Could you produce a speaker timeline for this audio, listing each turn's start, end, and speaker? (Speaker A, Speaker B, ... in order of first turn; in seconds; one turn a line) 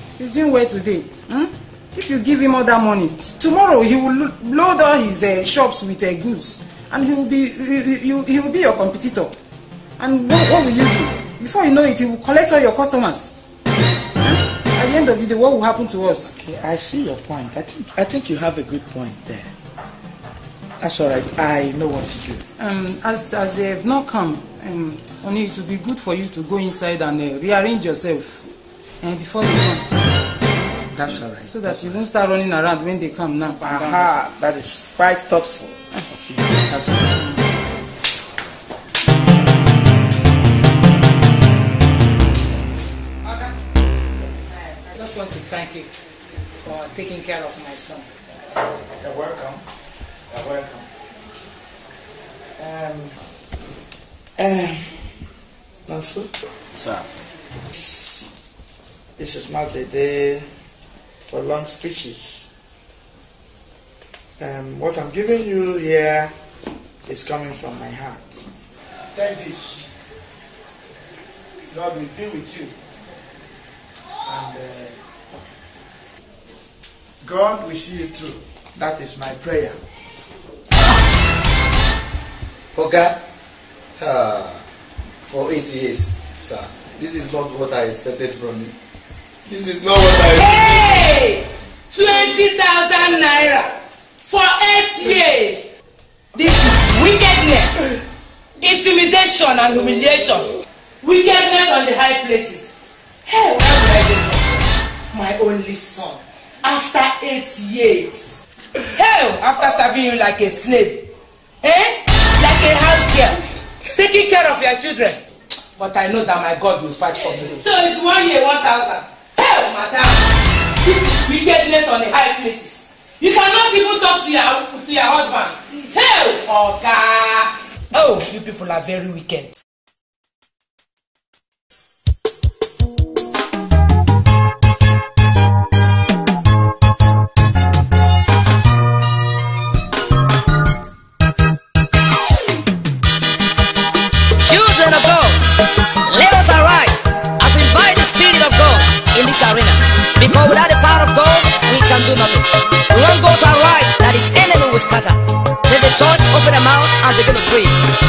Speaker A: 0.2-9.3
Speaker A: 10.0-13.3
Speaker A: 14.2-16.3
Speaker B: 16.2-19.5
Speaker B: 20.8-22.4
Speaker A: 22.6-28.4
Speaker A: 29.0-29.8
Speaker B: 30.6-32.0
Speaker A: 31.4-34.1
Speaker B: 33.6-37.2
Speaker A: 37.1-37.4
Speaker A: 43.3-43.5
Speaker A: 44.5-45.9
Speaker A: 46.6-48.1
Speaker B: 49.0-49.6
Speaker B: 50.3-50.9
Speaker B: 52.6-53.2
Speaker B: 54.4-55.1
Speaker B: 55.9-57.0
Speaker B: 57.7-58.0
Speaker B: 59.2-60.5
Speaker B: 61.3-62.5
Speaker B: 64.4-66.3
Speaker B: 67.1-68.5
Speaker B: 69.1-69.9
Speaker B: 71.7-72.7
Speaker B: 74.3-75.0
Speaker B: 77.2-79.8
Speaker C: 82.8-83.2
Speaker C: 84.0-84.6
Speaker C: 85.3-88.7
Speaker C: 89.5-90.8
Speaker D: 90.3-93.7
Speaker D: 94.2-95.7
Speaker D: 96.3-97.8
Speaker D: 98.6-100.5
Speaker D: 101.0-102.7
Speaker D: 103.3-108.3
Speaker D: 108.9-111.0
Speaker D: 111.6-113.4
Speaker D: 113.9-115.2
Speaker D: 115.8-120.2
Speaker D: 120.8-129.5
Speaker E: 144.4-145.4
Speaker E: 146.1-157.8